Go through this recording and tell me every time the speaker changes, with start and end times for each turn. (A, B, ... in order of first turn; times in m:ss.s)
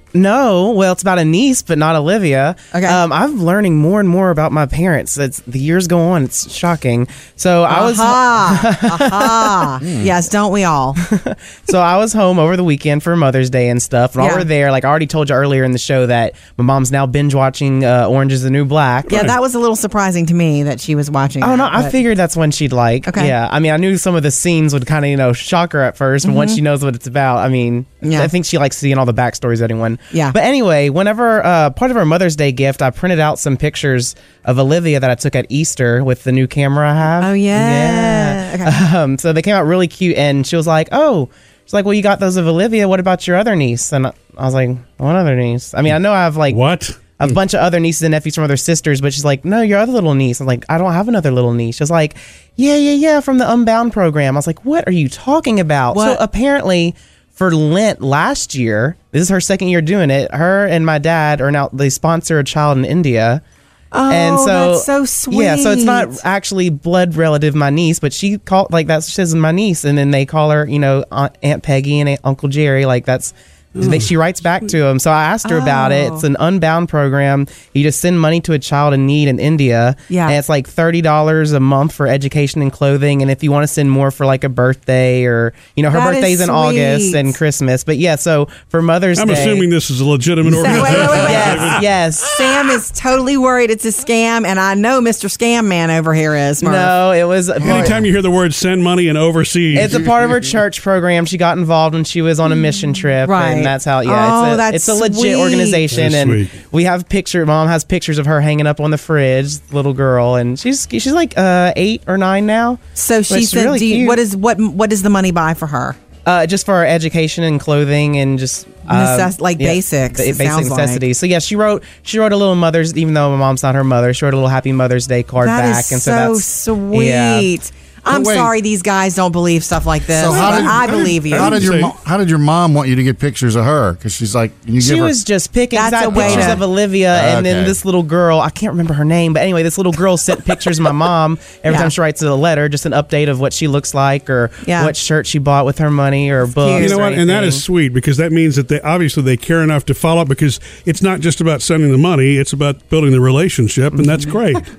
0:00.1-0:09.7 A
0:02.7-0:03.0 B
0:07.7-0:11.0 B
0:09.8-0:10.1 C
0:11.0-0:19.2 A
0:14.2-0:14.5 B
0:19.1-0:19.3 D
0:19.1-0:22.0 B
0:21.4-0:46.6 A
0:23.0-0:23.3 B
0:26.2-0:26.6 B
0:28.0-0:28.3 B
0:37.2-0:38.8 B
0:46.5-0:47.0 D
0:47.2-1:03.4 A
0:55.9-0:56.2 B
1:03.9-1:06.2 B
1:04.1-1:29.6 A
1:13.8-1:14.1 D
1:15.4-1:16.2 B
1:20.1-1:20.4 B
1:25.9-1:27.3 B
1:29.2-1:31.8 D
1:30.4-1:36.9 B
1:31.1-1:32.4 A
1:36.6-1:38.0 A
1:37.6-1:40.4 D
1:39.7-1:54.2 A
1:42.5-1:45.8 B
1:45.9-1:46.5 D
1:53.0-1:56.0 B
1:56.2-2:07.5 A
1:58.9-2:01.0 B
2:05.4-2:11.6 B
2:08.1-2:08.5 C
2:10.1-2:15.2 C
2:10.2-2:12.0 D
2:14.8-2:27.6 A
2:15.7-2:16.6 B
2:16.1-2:17.8 C
2:21.7-2:21.9 B
2:24.6-2:24.9 B
2:26.5-2:27.0 B
2:26.8-2:34.7 D